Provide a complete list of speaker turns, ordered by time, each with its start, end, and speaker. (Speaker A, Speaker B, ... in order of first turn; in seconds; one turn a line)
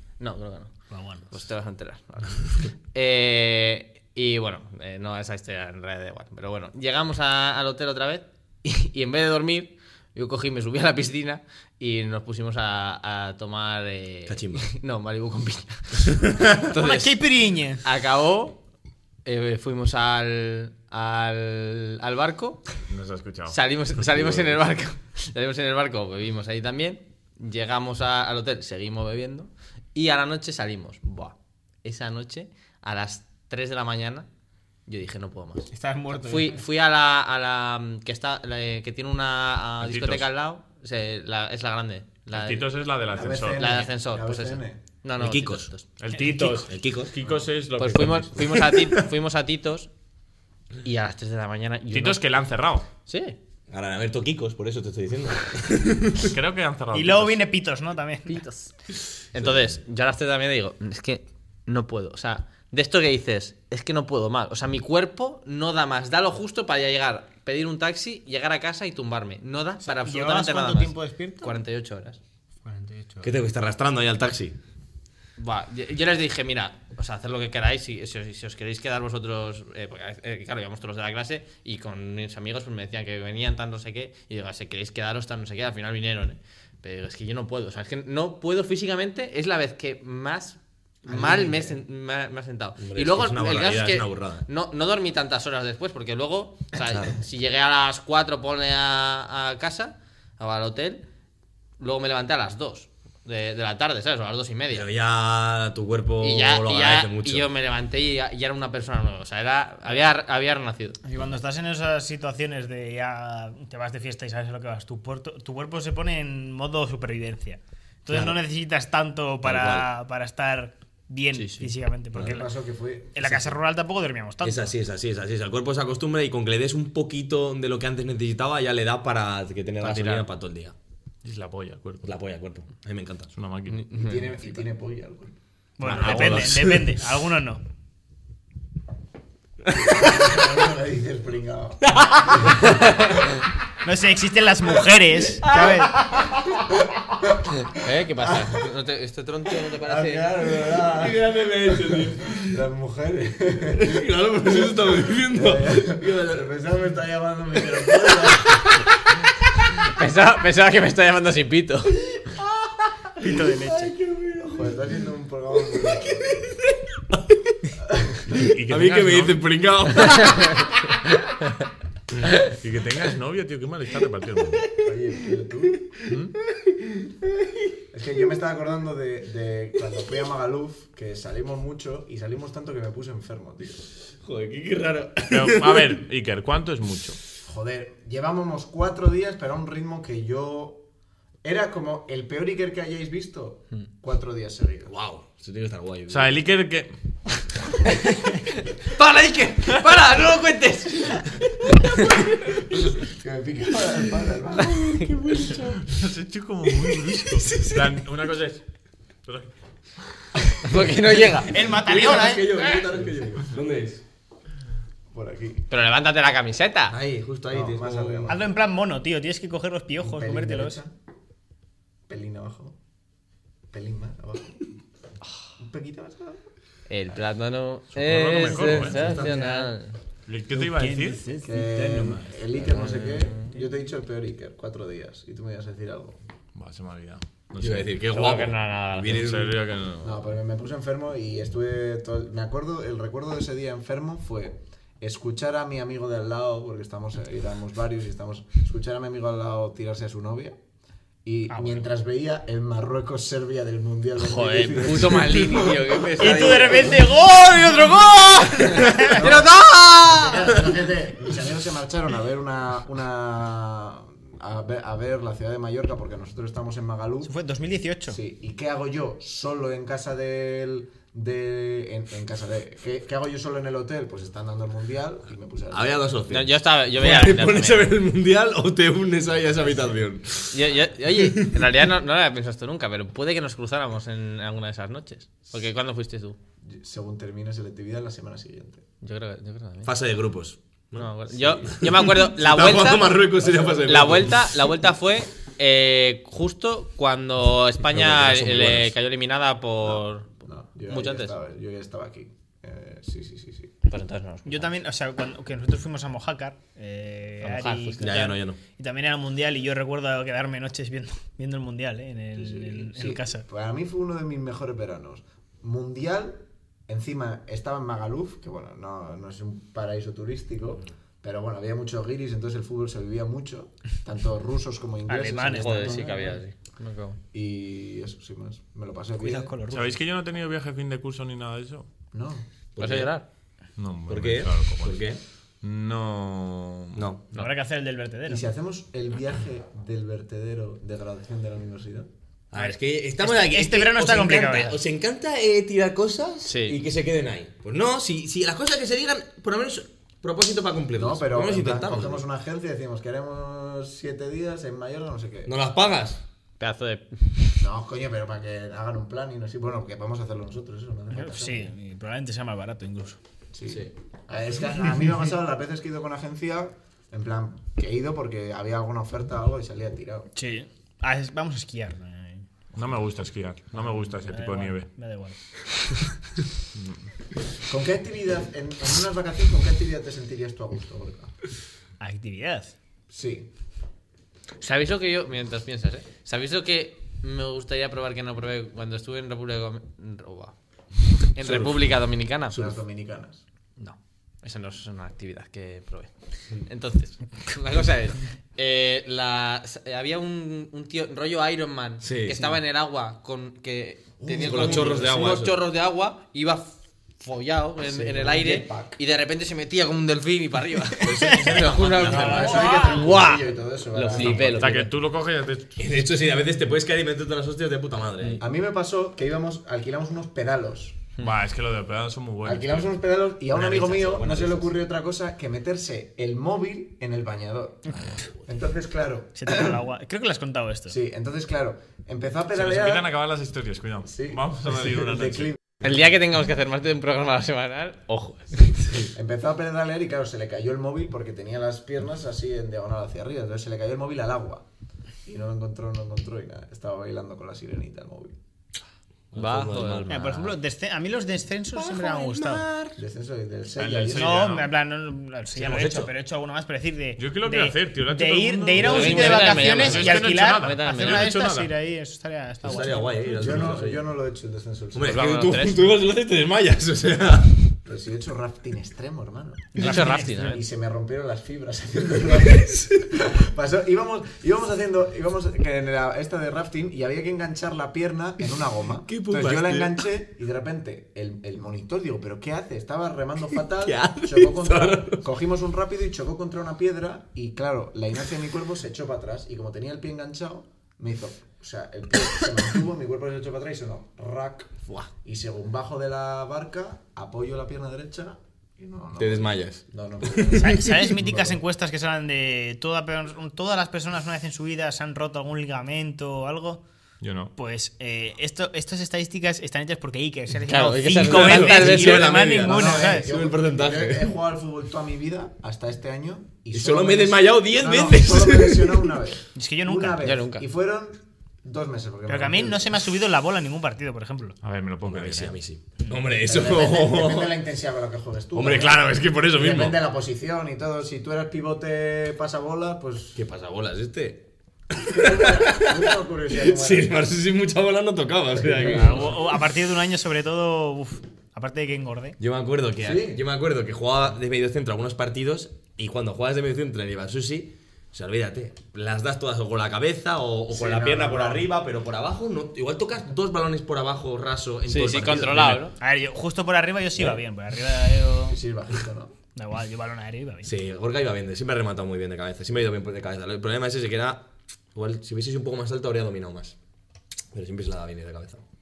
Speaker A: 0.2-0.8
Speaker B: 0.9-1.3
Speaker A: 1.3-17.2
Speaker C: 14.3-14.7
Speaker C: 16.1-16.6
Speaker B: 16.7-17.8
Speaker A: 17.8-18.6
Speaker A: 19.2-22.6
Speaker D: 22.9-23.6
Speaker A: 23.5-34.3
Speaker C: 24.1-24.6
Speaker A: 34.9-42.7
Speaker B: 35.7-36.6
Speaker D: 39.8-40.3
Speaker D: 42.3-43.8
Speaker E: 43.1-44.8
Speaker A: 43.4-45.9
Speaker C: 45.2-45.7
Speaker D: 46.0-48.6
Speaker B: 46.1-46.7
Speaker C: 46.7-47.1
Speaker A: 47.8-49.9
Speaker C: 48.4-49.0
Speaker A: 50.8-52.2
Speaker D: 51.9-52.9
Speaker A: 53.1-53.4
Speaker C: 53.7-56.3
Speaker D: 56.2-57.4
Speaker B: 56.9-58.5
Speaker A: 58.3-58.7
Speaker A: 59.3-72.2
Speaker B: 69.8-71.6
Speaker B: 72.6-73.3
Speaker C: 73.2-74.6
Speaker A: 75.4-101.0
Speaker E: 91.1-91.8
Speaker C: 92.8-94.5
Speaker A: 101.8-104.9
Speaker C: 104.7-107.5
Speaker A: 106.2-111.0
Speaker B: 111.0-122.5
Speaker C: 119.4-119.9
Speaker E: 122.1-123.4
Speaker B: 123.2-124.7
Speaker C: 124.4-130.8
Speaker D: 129.8-130.2
Speaker D: 131.2-132.1
Speaker C: 132.0-133.3
Speaker D: 133.3-133.9
Speaker A: 133.7-134.4
Speaker E: 133.9-135.4
Speaker B: 135.8-137.6
Speaker C: 135.8-137.0
Speaker D: 136.0-136.4
Speaker C: 139.7-140.1
Speaker E: 139.8-142.6
Speaker C: 141.9-142.2
Speaker B: 143.8-146.0
Speaker C: 145.4-146.6
Speaker A: 147.7-150.3
Speaker E: 149.8-154.1
Speaker C: 150.7-152.6
Speaker C: 153.7-156.5
Speaker E: 155.2-158.7
Speaker A: 159.9-162.0
Speaker C: 163.2-164.9
Speaker B: 163.2-163.9
Speaker E: 164.4-166.4
Speaker D: 168.3-169.4
Speaker C: 168.3-170.7
Speaker D: 172.4-174.7
Speaker E: 174.8-175.9
Speaker D: 176.1-176.3
Speaker E: 177.9-183.9
Speaker C: 184.2-186.0
Speaker D: 185.3-187.2
Speaker E: 187.4-190.8
Speaker E: 191.4-194.9
Speaker C: 194.9-196.4
Speaker D: 196.1-196.9
Speaker A: 199.0-201.3
Speaker A: 201.8-202.1
Speaker E: 202.9-205.0
Speaker C: 204.8-205.7
Speaker D: 205.8-208.6
Speaker C: 207.4-207.8
Speaker D: 209.2-209.5
Speaker A: 210.6-211.6
Speaker B: 211.4-212.7
Speaker C: 211.7-214.0
Speaker E: 215.1-215.7
Speaker A: 215.7-217.0
Speaker C: 216.9-218.4
Speaker E: 217.5-218.5
Speaker B: 218.3-220.8
Speaker E: 220.0-220.9
Speaker E: 222.1-222.8
Speaker E: 223.7-224.6
Speaker E: 225.6-226.4
Speaker A: 226.9-230.0
Speaker D: 227.9-229.2
Speaker C: 228.6-229.3
Speaker B: 229.1-229.7
Speaker D: 230.3-231.2
Speaker B: 230.5-232.9
Speaker E: 231.4-236.2
Speaker A: 232.7-233.5
Speaker D: 236.6-238.0
Speaker C: 237.6-239.6
Speaker A: 238.1-239.3
Speaker D: 239.1-240.2
Speaker E: 240.0-250.6
Speaker E: 251.2-256.7
Speaker B: 251.5-251.9
Speaker A: 254.2-256.9
Speaker B: 256.2-259.2
Speaker E: 258.9-259.5
Speaker A: 259.1-260.2
Speaker C: 259.1-260.5
Speaker E: 260.0-267.3
Speaker B: 267.2-268.2
Speaker E: 268.1-276.0
Speaker C: 275.7-280.6
Speaker A: 276.3-277.9
Speaker A: 280.5-286.4
Speaker E: 286.6-288.8
Speaker A: 289.0-289.9
Speaker C: 289.9-294.7
Speaker A: 291.0-293.2
Speaker E: 293.4-294.3
Speaker A: 293.8-301.3
Speaker C: 297.9-298.9
Speaker E: 300.4-303.7
Speaker A: 303.9-304.8
Speaker B: 304.5-313.4
Speaker A: 307.4-308.0
Speaker C: 308.0-308.6
Speaker E: 312.4-326.3
Speaker B: 325.1-326.4
Speaker A: 325.5-327.2
Speaker E: 327.3-329.6
Speaker B: 329.2-330.0
Speaker D: 329.7-331.9
Speaker E: 332.1-332.5
Speaker C: 332.8-333.1
Speaker A: 332.8-333.2
Speaker D: 333.8-335.0
Speaker C: 334.1-335.2
Speaker D: 335.6-337.0
Speaker C: 337.0-337.3
Speaker B: 337.3-338.5
Speaker E: 338.3-342.1
Speaker C: 342.5-352.2
Speaker B: 342.6-344.8
Speaker A: 346.4-346.8
Speaker E: 350.9-355.5
Speaker C: 355.5-356.2
Speaker A: 356.6-357.6
Speaker E: 357.6-361.7
Speaker B: 361.1-363.2
Speaker E: 363.5-370.3
Speaker B: 370.4-372.5
Speaker D: 372.7-374.9
Speaker B: 374.2-375.4
Speaker D: 376.8-377.1
Speaker E: 377.7-381.3
Speaker B: 382.0-382.7
Speaker E: 383.1-383.5
Speaker A: 384.6-390.6
Speaker A: 391.2-392.7
Speaker C: 391.5-391.7
Speaker E: 392.5-393.4
Speaker A: 393.8-396.1
Speaker A: 396.6-414.9
Speaker C: 402.0-402.6
Speaker E: 404.2-405.1
Speaker C: 404.4-405.6
Speaker E: 407.8-409.0
Speaker C: 411.0-412.8
Speaker B: 411.2-411.5
Speaker E: 412.0-414.7
Speaker B: 412.5-413.1
Speaker C: 414.1-414.6
Speaker D: 414.6-415.8
Speaker C: 415.8-418.4
Speaker E: 418.4-421.0
Speaker D: 421.2-422.9
Speaker E: 422.4-429.8
Speaker C: 423.5-424.7
Speaker B: 429.4-430.9
Speaker E: 430.9-433.1
Speaker D: 432.6-435.5
Speaker E: 434.1-435.6
Speaker A: 435.8-438.7
Speaker E: 439.1-444.6
Speaker E: 445.2-448.4
Speaker C: 449.3-450.5
Speaker A: 449.4-450.3
Speaker B: 450.1-452.8
Speaker C: 451.9-452.6
Speaker E: 453.0-454.4
Speaker D: 453.8-454.7
Speaker B: 454.1-463.5
Speaker C: 455.6-456.1
Speaker D: 457.2-461.7
Speaker C: 458.7-460.1
Speaker A: 458.8-461.3
Speaker C: 462.6-464.1
Speaker E: 463.4-465.3
Speaker C: 464.9-467.6
Speaker A: 465.1-465.8
Speaker E: 467.9-501.6
Speaker B: 469.8-470.6
Speaker A: 469.8-470.6
Speaker C: 479.1-480.1
Speaker C: 483.8-485.3
Speaker C: 499.2-500.9
Speaker B: 500.6-506.8
Speaker D: 507.2-507.5
Speaker B: 507.6-513.3
Speaker A: 510.7-512.3
Speaker C: 511.1-514.3
Speaker E: 512.7-522.9
Speaker C: 516.7-519.1
Speaker B: 519.5-520.2
Speaker A: 520.2-520.6
Speaker B: 522.3-524.6
Speaker D: 524.6-525.6
Speaker C: 525.1-527.6
Speaker E: 526.4-533.4
Speaker C: 528.5-530.0
Speaker C: 533.4-539.5
Speaker E: 535.0-537.2
Speaker E: 538.6-539.3
Speaker B: 538.9-542.4
Speaker C: 542.4-555.8
Speaker E: 543.0-543.4
Speaker E: 550.7-551.7
Speaker A: 554.9-555.9
Speaker B: 555.9-558.6
Speaker E: 558.5-559.4
Speaker B: 559.5-560.7
Speaker C: 560.6-566.8
Speaker C: 567.5-568.6